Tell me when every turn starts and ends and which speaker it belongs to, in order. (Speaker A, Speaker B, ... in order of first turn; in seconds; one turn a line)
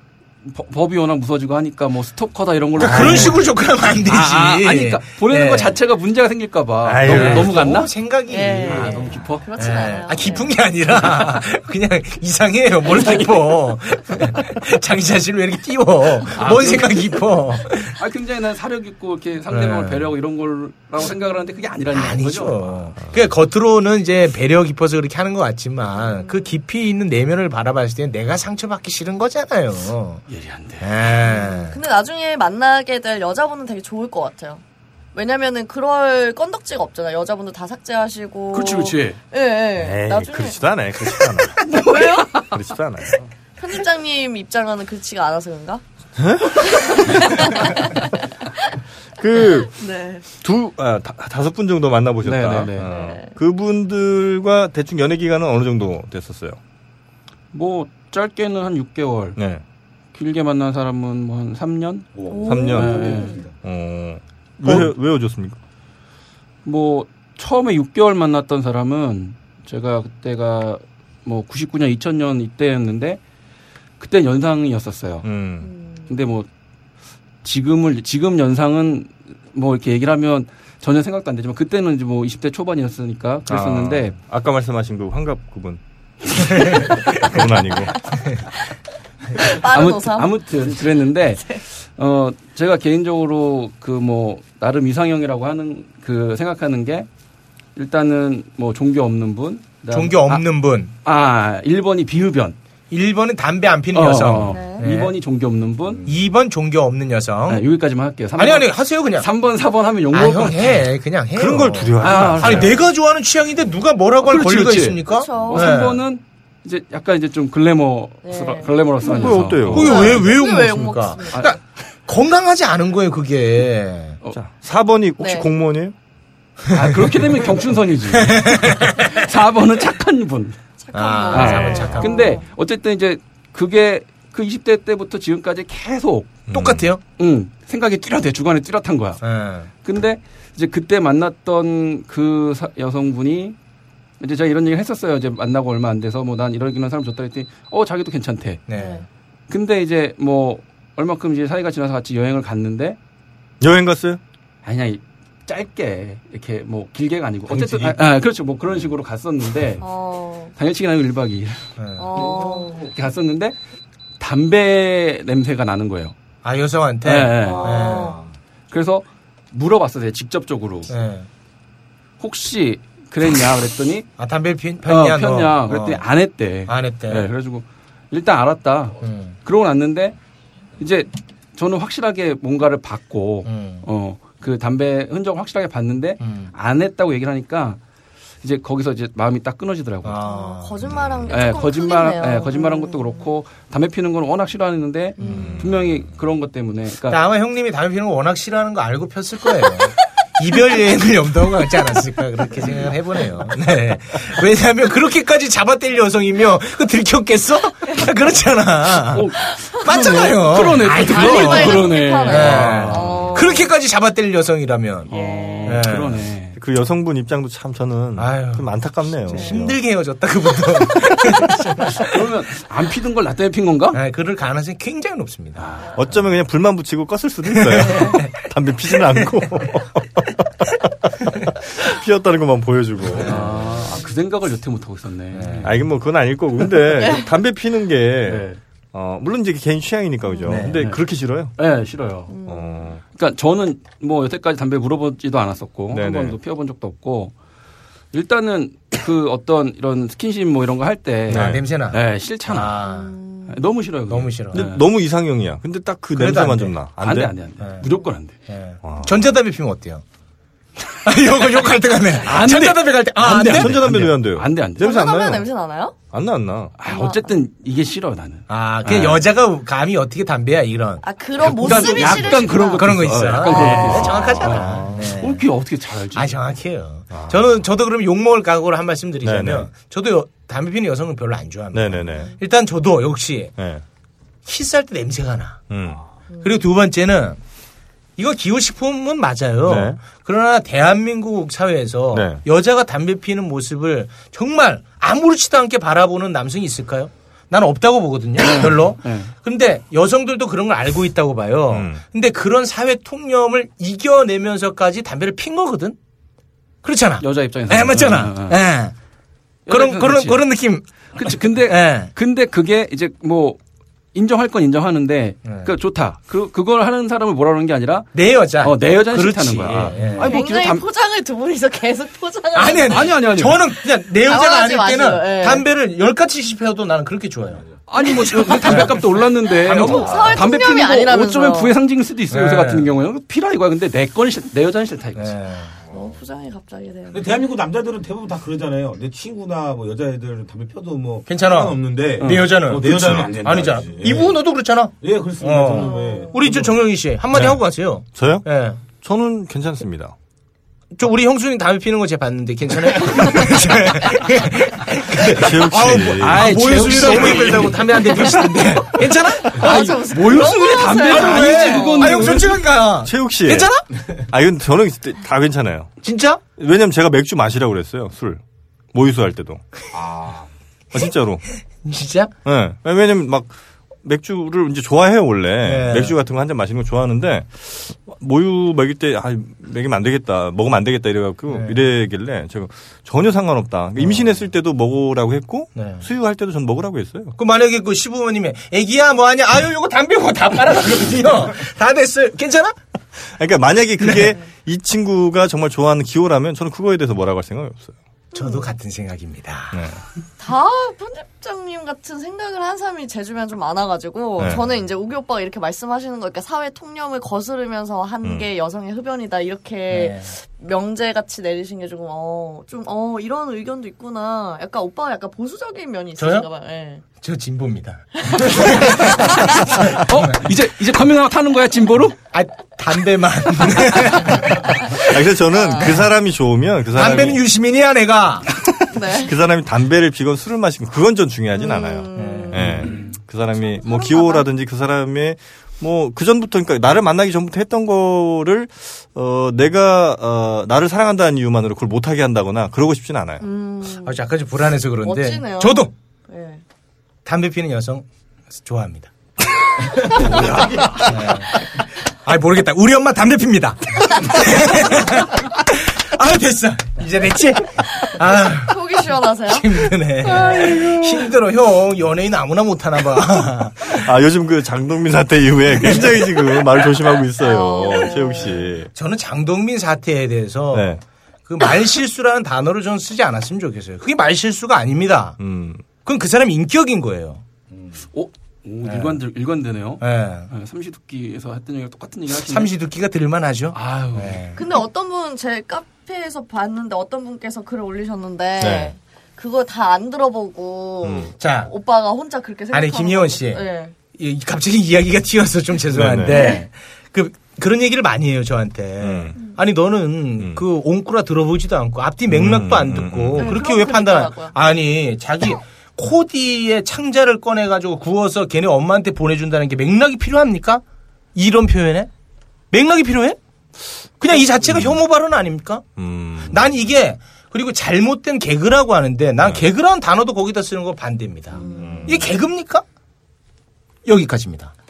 Speaker A: 0.4-3.5
Speaker B: 2.8-3.4
Speaker C: 2.8-5.8
Speaker A: 4.0-7.9
Speaker B: 6.8-7.6
Speaker C: 7.0-17.9
Speaker D: 8.3-10.6
Speaker A: 8.4-9.5
Speaker A: 16.4-17.2
Speaker A: 17.9-22.9
Speaker C: 19.5-20.1
Speaker C: 21.9-30.2
Speaker D: 26.0-26.6
Speaker A: 30.3-30.9
Speaker C: 30.8-31.8
Speaker D: 31.2-34.6
Speaker D: 35.1-40.6
Speaker A: 38.5-39.2
Speaker B: 39.8-41.8
Speaker D: 41.1-42.5
Speaker A: 41.8-42.4
Speaker B: 42.5-43.2
Speaker D: 43.6-45.8
Speaker B: 46.2-47.6
Speaker D: 46.7-48.1
Speaker B: 49.2-49.8
Speaker D: 49.5-50.3
Speaker B: 50.3-56.6
Speaker A: 52.2-52.9
Speaker D: 52.8-53.3
Speaker A: 57.5-59.4
Speaker B: 59.4-59.6
Speaker A: 60.1-63.4
Speaker E: 62.1-63.5
Speaker D: 62.3-63.5
Speaker B: 62.5-65.6
Speaker A: 66.6-73.2
Speaker A: 74.0-75.3
Speaker B: 75.2-75.7
Speaker D: 75.6-76.2
Speaker A: 76.1-76.5
Speaker A: 77.4-84.2
Speaker B: 83.5-85.8
Speaker B: 86.3-88.0
Speaker D: 89.4-90.3
Speaker A: 89.6-97.1
Speaker A: 97.8-100.4
Speaker C: 99.9-100.9
Speaker A: 101.0-102.6
Speaker C: 102.9-105.2
Speaker A: 103.9-106.1
Speaker D: 104.5-104.9
Speaker E: 105.8-106.1
Speaker C: 106.1-107.6
Speaker A: 107.5-110.9
Speaker C: 108.4-109.3
Speaker C: 110.1-116.0
Speaker B: 111.3-112.8
Speaker A: 112.0-112.8
Speaker A: 114.2-120.3
Speaker D: 115.1-115.9
Speaker D: 118.2-121.5
Speaker B: 119.1-120.2
Speaker C: 119.7-124.2
Speaker B: 124.3-125.9
Speaker D: 125.2-125.5
Speaker A: 126.7-130.6
Speaker C: 128.1-129.2
Speaker D: 130.8-132.5
Speaker C: 130.9-132.3
Speaker A: 131.3-136.4
Speaker B: 136.5-136.9
Speaker C: 136.5-137.0
Speaker A: 137.2-139.2
Speaker C: 139.2-139.7
Speaker A: 139.8-143.6
Speaker A: 144.2-148.7
Speaker C: 148.7-149.1
Speaker D: 148.7-149.1
Speaker A: 149.5-153.0
Speaker B: 153.6-154.2
Speaker A: 154.6-159.8
Speaker E: 157.5-158.0
Speaker D: 159.8-160.5
Speaker A: 160.6-163.6
Speaker C: 161.8-162.1
Speaker D: 162.0-162.9
Speaker E: 162.2-162.9
Speaker A: 164.2-166.2
Speaker C: 166.4-168.2
Speaker A: 167.0-168.0
Speaker E: 167.4-167.8
Speaker D: 167.5-168.2
Speaker A: 168.7-170.9
Speaker C: 170.9-171.3
Speaker A: 172.2-174.1
Speaker C: 174.2-176.0
Speaker A: 174.8-180.2
Speaker C: 176.7-177.3
Speaker C: 179.0-179.3
Speaker A: 180.8-187.8
Speaker C: 183.4-183.9
Speaker C: 186.2-186.5
Speaker A: 188.4-190.2
Speaker C: 190.1-190.7
Speaker D: 190.2-193.3
Speaker B: 190.9-191.3
Speaker A: 191.3-197.2
Speaker D: 195.2-195.5
Speaker C: 195.2-195.5
Speaker B: 195.3-196.0
Speaker C: 197.1-209.3
Speaker A: 209.1-213.4
Speaker C: 209.8-215.1
Speaker D: 210.9-213.7
Speaker A: 215.1-216.6
Speaker D: 215.1-215.9
Speaker C: 215.7-216.2
Speaker B: 216.6-219.8
Speaker C: 218.2-222.1
Speaker D: 219.3-219.6
Speaker A: 222.0-224.0
Speaker C: 223.9-225.7
Speaker A: 225.6-225.9
Speaker B: 225.9-233.6
Speaker C: 227.5-228.4
Speaker C: 233.2-233.6
Speaker A: 233.2-235.8
Speaker C: 235.3-235.8
Speaker B: 235.6-241.6
Speaker A: 238.3-238.6
Speaker D: 240.3-240.6
Speaker C: 240.5-240.8
Speaker A: 240.8-241.0
Speaker A: 241.6-242.3
Speaker D: 242.3-242.9
Speaker B: 242.4-243.0
Speaker A: 243.1-247.3
Speaker B: 245.9-246.4
Speaker A: 248.1-252.8
Speaker B: 251.3-251.6
Speaker C: 251.3-253.1
Speaker D: 252.8-253.6
Speaker A: 253.5-254.8
Speaker C: 254.1-254.6
Speaker B: 254.5-257.3
Speaker C: 256.1-256.8
Speaker A: 257.0-258.4
Speaker C: 257.6-257.9
Speaker C: 258.5-260.0
Speaker B: 258.8-259.2
Speaker C: 261.0-264.0
Speaker A: 262.2-265.0
Speaker B: 263.4-265.5
Speaker D: 264.8-266.0
Speaker B: 266.1-266.8
Speaker A: 266.8-269.3
Speaker D: 266.9-267.2
Speaker C: 268.5-271.0
Speaker D: 271.0-273.7
Speaker A: 271.4-276.3
Speaker C: 271.8-275.4
Speaker B: 273.7-275.1
Speaker C: 276.1-283.5
Speaker B: 277.1-277.6
Speaker B: 279.2-279.7
Speaker B: 281.7-282.3
Speaker B: 283.6-283.8
Speaker C: 284.5-285.6
Speaker B: 285.7-286.0
Speaker D: 286.3-286.6
Speaker C: 286.4-287.4
Speaker C: 288.2-306.0
Speaker B: 289.6-290.0
Speaker B: 292.1-292.4
Speaker A: 298.4-299.3
Speaker B: 301.7-302.0
Speaker C: 306.8-308.9
Speaker A: 307.2-308.6
Speaker A: 309.7-310.4
Speaker C: 309.7-310.9
Speaker A: 311.1-313.6
Speaker C: 311.6-312.1
Speaker A: 314.1-320.8
Speaker C: 315.4-315.7
Speaker C: 318.1-320.4
Speaker D: 320.2-323.2
Speaker C: 322.5-327.6
Speaker A: 322.9-323.6
Speaker D: 324.2-325.7
Speaker A: 327.9-335.4
Speaker D: 328.0-329.0
Speaker C: 328.7-329.0
Speaker D: 329.6-331.8
Speaker C: 329.6-330.3
Speaker C: 332.3-332.9
Speaker C: 335.2-335.7
Speaker D: 335.9-337.4
Speaker E: 337.1-344.4
Speaker C: 341.3-348.8
Speaker A: 342.2-342.5
Speaker E: 345.0-346.8
Speaker D: 345.7-346.4
Speaker B: 347.3-347.6
Speaker B: 348.1-348.5
Speaker B: 349.0-350.1
Speaker C: 351.0-363.8
Speaker B: 355.3-356.7
Speaker A: 356.1-358.7
Speaker D: 359.4-362.4
Speaker A: 359.6-362.6
Speaker B: 363.0-363.7
Speaker B: 364.3-365.9
Speaker C: 366.0-366.4
Speaker B: 366.6-368.4
Speaker B: 368.9-369.6
Speaker E: 369.9-370.5
Speaker B: 370.9-371.4
Speaker C: 371.8-372.3
Speaker B: 372.4-387.4
Speaker C: 375.6-376.2
Speaker C: 381.5-381.8
Speaker C: 385.8-386.0
Speaker C: 387.4-392.8
Speaker B: 393.2-397.9
Speaker C: 394.0-394.4
Speaker D: 398.3-398.7
Speaker C: 398.4-399.8
Speaker B: 399.7-400.0
Speaker D: 400.4-417.0
Speaker B: 404.4-404.6
Speaker C: 409.9-410.3
Speaker C: 416.2-416.5
Speaker C: 417.2-420.0
Speaker D: 418.2-419.6
Speaker A: 419.6-422.2
Speaker C: 422.3-424.9
Speaker B: 424.9-427.4
Speaker C: 425.5-426.1
Speaker D: 425.8-426.0
Speaker C: 426.9-428.5
Speaker D: 428.9-429.3
Speaker B: 429.0-443.5
Speaker D: 431.5-434.5
Speaker C: 432.2-432.9
Speaker D: 443.4-444.2
Speaker C: 444.0-445.9
Speaker D: 445.0-446.6
Speaker C: 447.2-449.1
Speaker A: 450.3-450.6
Speaker C: 450.9-451.6
Speaker C: 452.2-458.8
Speaker D: 458.6-459.9
Speaker C: 459.4-464.1
Speaker B: 460.3-461.3
Speaker B: 463.9-468.9
Speaker C: 465.8-466.5
Speaker D: 467.4-468.6
Speaker C: 468.9-471.0
Speaker B: 470.7-471.0
Speaker C: 471.5-475.4
Speaker B: 475.4-475.8
Speaker C: 476.0-477.4
Speaker A: 478.1-482.7
Speaker C: 478.8-479.2
Speaker C: 480.0-480.5
Speaker C: 482.4-484.6
Speaker A: 483.7-484.6
Speaker D: 484.6-493.9
Speaker B: 488.6-488.9
Speaker B: 491.0-491.3
Speaker C: 491.4-491.7
Speaker C: 492.7-510.8
Speaker B: 495.9-496.5
Speaker D: 496.3-496.6
Speaker B: 499.0-499.4
Speaker B: 500.4-500.6
Speaker B: 502.3-503.6
Speaker D: 503.4-504.6
Speaker C: 511.4-512.1
Speaker C: 512.7-513.4
Speaker C: 514.2-515.8
Speaker B: 514.6-515.0
Speaker B: 516.0-516.7
Speaker C: 516.5-522.9
Speaker D: 521.5-522.3
Speaker B: 521.6-522.3
Speaker C: 524.0-524.7